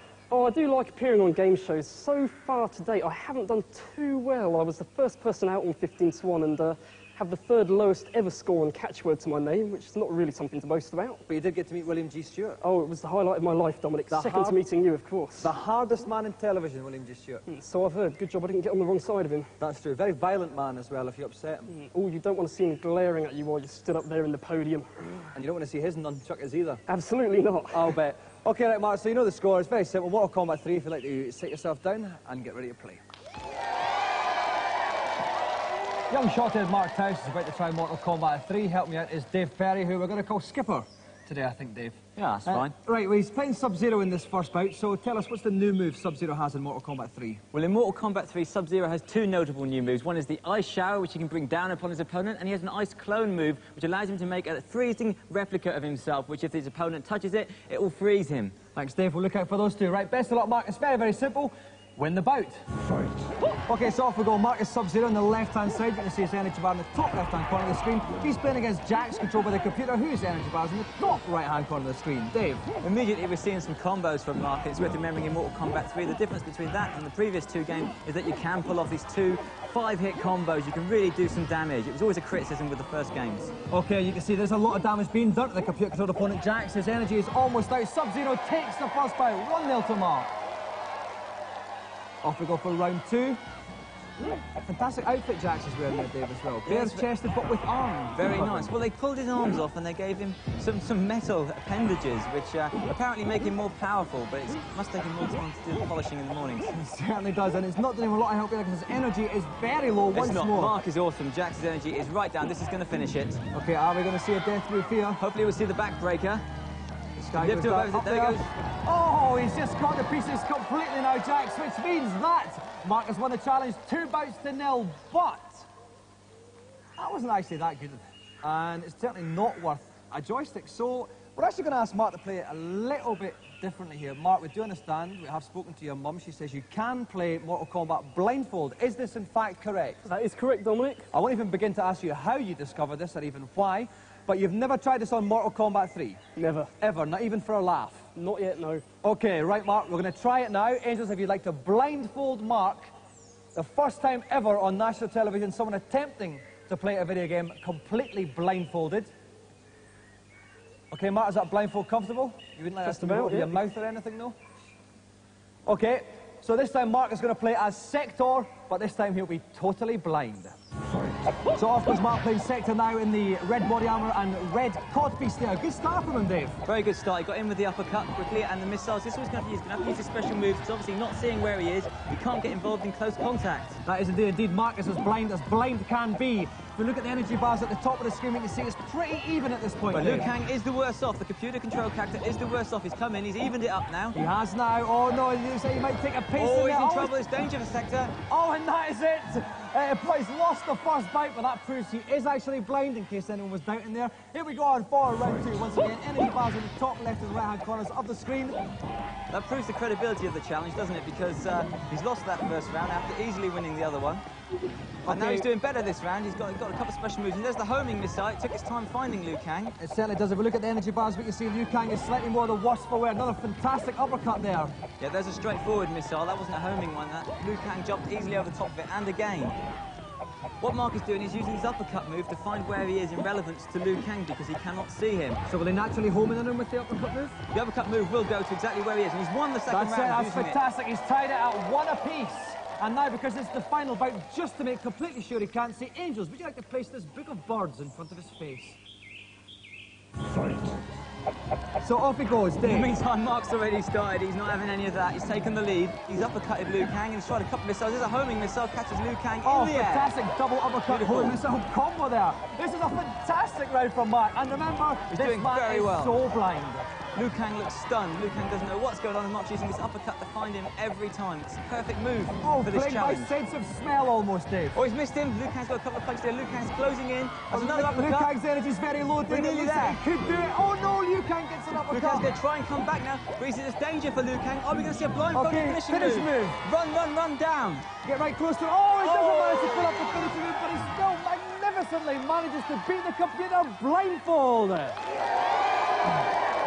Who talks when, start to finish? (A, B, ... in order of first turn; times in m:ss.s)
0:00.3-0:11.2 A
0:11.3-0:12.6 B
0:12.6-0:15.5 A
0:14.1-0:14.6 B
0:15.4-0:17.4 B
0:17.5-0:19.5 A
0:19.6-0:21.7 B
0:21.7-0:25.2 A
0:25.4-0:26.8 B
0:26.9-0:28.0 A
0:27.7-0:33.0 B
0:36.1-0:47.4 B
0:42.2-0:42.7 C
0:47.5-0:58.6 C
0:58.7-1:02.6 B
1:03.7-1:12.7 B
1:12.8-1:23.5 C
1:23.7-1:30.3 B
1:32.2-1:33.4 B
1:34.6-1:38.7 B
1:36.7-1:37.1 C
1:38.2-1:46.7 C
1:46.7-1:50.8 B
1:50.1-1:53.4 C
1:53.5-1:55.2 B
1:55.2-1:56.4 C
1:57.2-2:05.7 B
1:57.3-1:58.5 C
2:07.0-2:20.0 B
2:20.0-2:21.1 A
2:21.1-2:26.2 B
2:26.4-2:26.7 A
2:26.8-2:28.1 B
2:28.2-2:28.8 A
2:29.0-2:32.9 B
2:33.6-2:39.1 B
2:40.9-2:44.4 B
2:42.8-2:43.6 A
2:45.7-2:50.6 B
2:51.6-2:56.6 B
2:56.7-3:03.8 C
3:03.9-3:10.3 B
3:09.9-3:14.2 C
3:14.1-3:17.1 B
3:16.4-3:18.2 C
3:18.3-3:28.6 B
3:29.3-3:34.2 C
3:35.1-3:35.5 B
3:35.1-3:39.8 C
3:39.8-3:44.7 B
3:45.0-3:49.6 C
3:50.6-3:55.4 C
3:55.5-3:57.4 B
3:57.5-4:00.6 C
3:59.7-4:08.8 B
4:11.8-4:12.9 B
4:12.6-4:20.2 C
4:19.4-4:26.9 B
4:20.9-4:21.4 C
4:25.1-4:26.2 C
4:27.2-4:33.3 C
4:32.4-4:34.8 B
4:34.7-4:38.3 C
4:37.5-4:42.3 B
4:39.3-4:40.0 C
4:41.9-4:47.9 C
4:45.3-4:46.6 B
4:48.0-4:55.0 B
4:49.0-4:49.9 C